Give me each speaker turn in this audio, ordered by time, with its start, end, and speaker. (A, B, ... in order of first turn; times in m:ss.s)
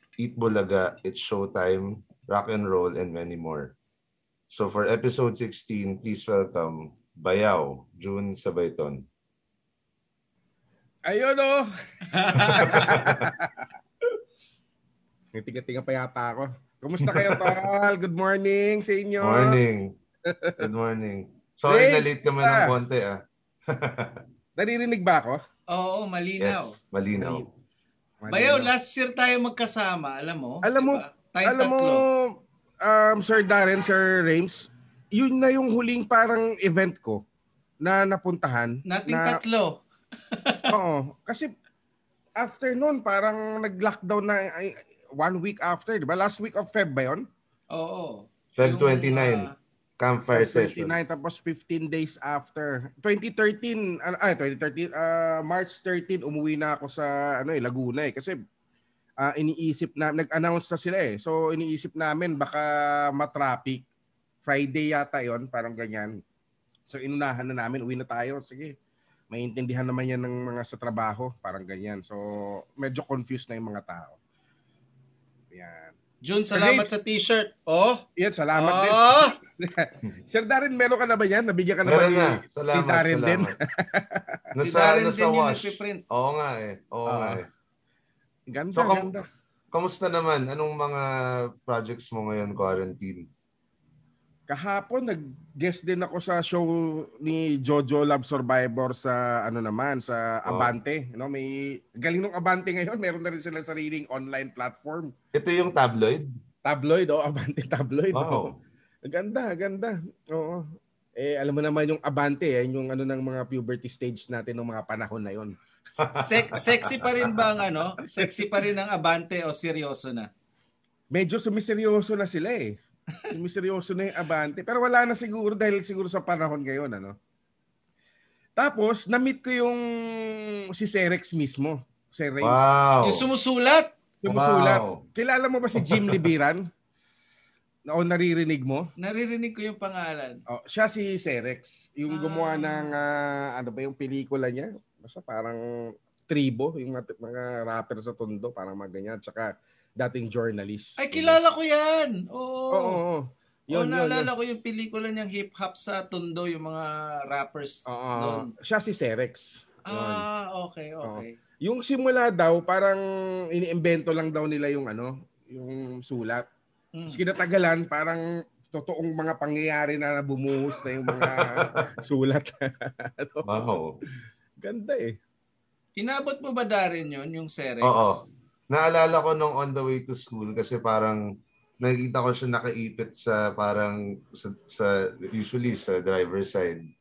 0:00.2-0:03.8 A
0:04.5-0:09.0 A
0:11.1-0:11.7 B
0:12.1-0:13.0 C
0:12.4-0:13.7 B
0:12.7-0:13.3 A
0:15.3-0:19.6 B
0:17.1-0:17.6 A
0:19.2-0:20.0 A
0:20.2-0:20.7 B
0:20.6-0:24.2 A
0:21.7-0:22.7 B
0:24.6-0:25.4 B
0:25.7-0:26.8 C
0:26.4-0:27.5 A
0:27.2-0:27.5 B
0:28.2-0:28.7 B
0:28.3-0:32.0 C
0:30.6-0:37.2 B
0:37.8-0:39.4 B
0:38.8-0:40.7 C
0:40.7-0:41.5 B
0:42.4-0:47.2 B
0:47.7-0:49.5 C
0:48.6-0:51.1 A
0:50.3-0:58.4 B
0:59.2-1:03.8 B
1:04.4-1:06.2 B
1:06.9-1:08.8 B
1:09.3-1:14.2 B
1:15.5-1:16.0 B
1:16.2-1:18.0 C
1:16.5-1:16.9 B
1:18.2-1:24.4 B
1:18.6-1:19.4 C
1:21.8-1:23.6 A
1:24.6-1:27.5 A
1:24.6-1:26.0 C
1:27.1-1:27.4 B
1:28.5-1:29.2 B
1:28.7-1:33.3 A
1:34.5-1:45.1 B
1:40.5-1:40.7 A
1:45.3-1:46.3 A
1:46.6-1:48.5 B
1:48.1-1:48.6 A
1:49.1-1:55.6 B
1:56.0-1:56.7 A
1:56.1-2:00.3 C
1:58.2-1:58.5 B
2:01.1-2:02.8 B
2:03.3-2:07.2 B
2:08.6-2:12.8 B
2:12.4-2:13.3 A
2:13.0-2:13.9 C
2:14.2-2:16.6 B
2:14.3-2:15.0 A
2:15.8-2:16.2 A
2:17.9-2:18.9 B
2:19.0-2:20.4 C
2:20.5-2:25.6 B
2:22.1-2:22.9 C
2:26.3-2:31.4 B
2:31.0-2:33.0 C
2:32.7-2:34.3 B
2:33.7-2:38.5 C
2:37.9-2:40.2 B
2:39.9-2:41.4 C
2:41.0-2:43.0 B
2:43.5-2:46.5 B
2:47.1-2:53.7 B
2:51.1-2:51.9 A
2:53.4-2:54.0 A
2:54.6-2:55.2 B
2:56.0-2:58.2 C
2:57.8-3:01.2 A
3:01.8-3:06.8 A